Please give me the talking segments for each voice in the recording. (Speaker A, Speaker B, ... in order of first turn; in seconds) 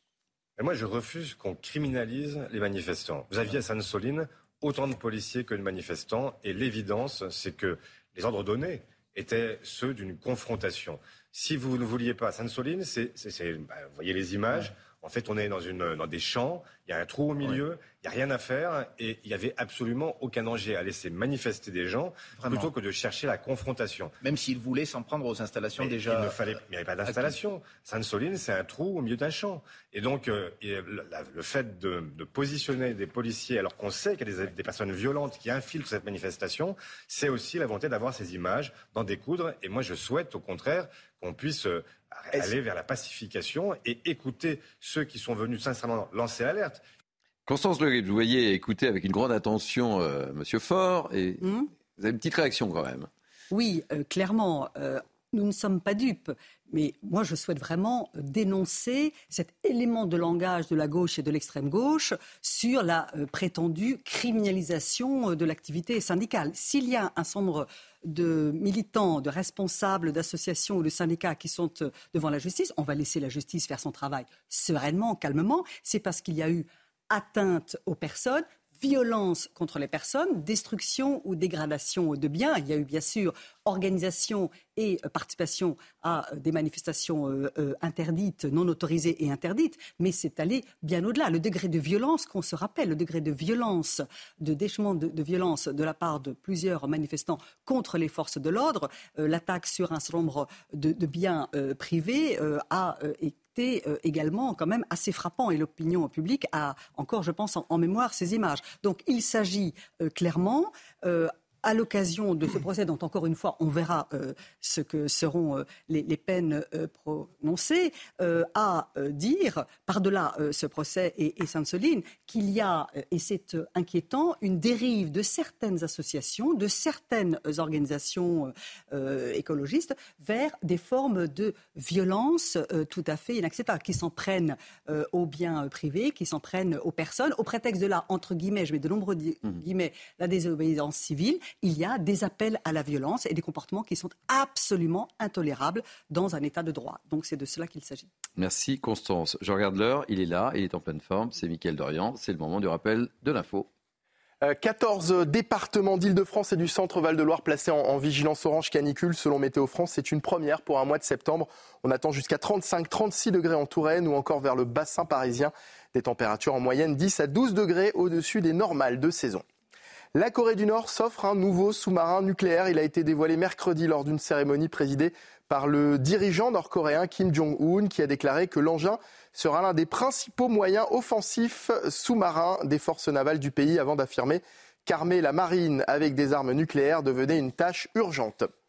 Speaker A: 0.6-24.1, 25.8-46.8
Speaker B: 22.4-22.7, 24.2-26.4, 27.0-27.4
Speaker C: 47.5-53.1, 148.4-153.7
Speaker D: 51.4-51.6, 53.5-148.1
Speaker E: 154.4-169.4, 170.1-188.5